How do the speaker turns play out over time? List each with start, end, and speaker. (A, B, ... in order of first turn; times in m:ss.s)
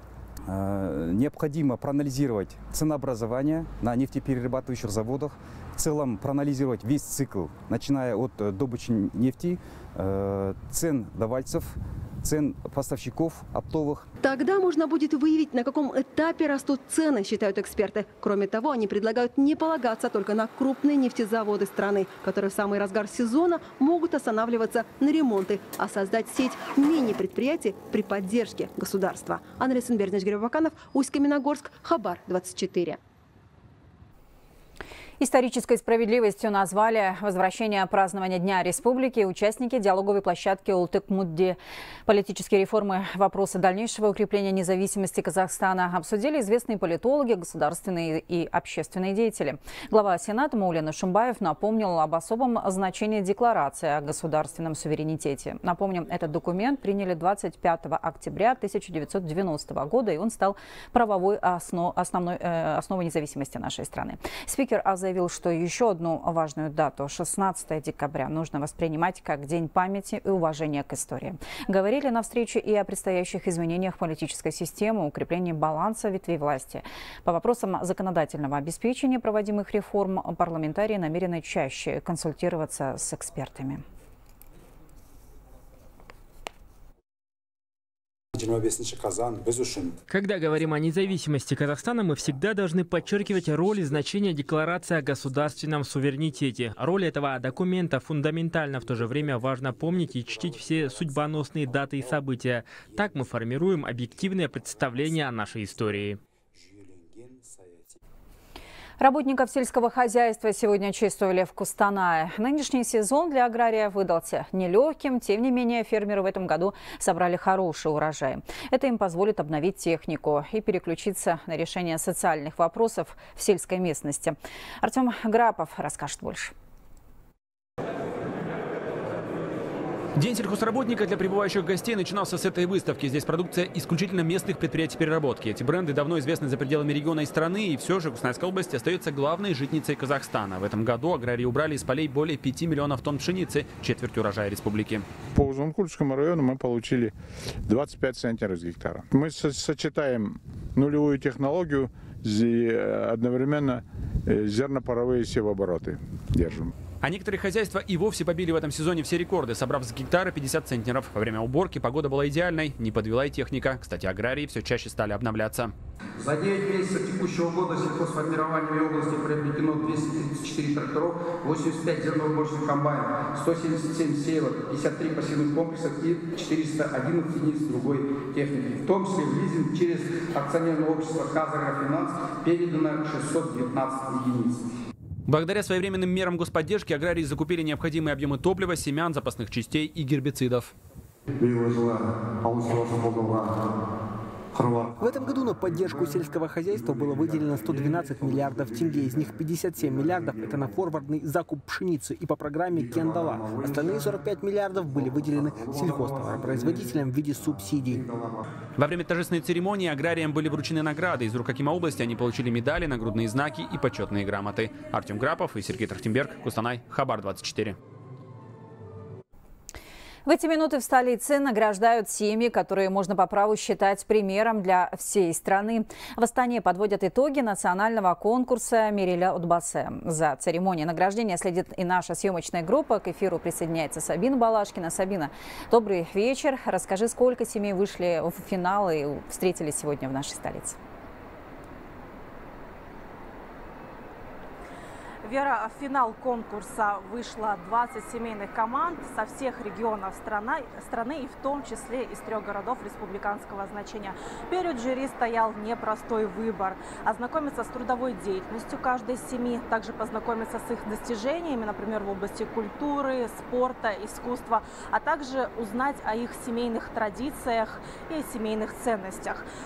0:00.4-0:14.1 A
0:14.2-0:33.0 B
0:35.2-1:23.8 C
1:30.1-1:46.2 D
1:49.0-2:06.5 C
2:10.2-2:25.0 E
2:25.3-2:27.1 F
2:27.6-2:36.7 F
2:37.0-2:45.7 E
2:46.2-3:04.6 G
3:05.3-3:10.7 E
3:15.0-3:28.1 H
3:28.8-3:37.8 E
3:40.2-4:00.8 C
4:05.2-4:29.4 I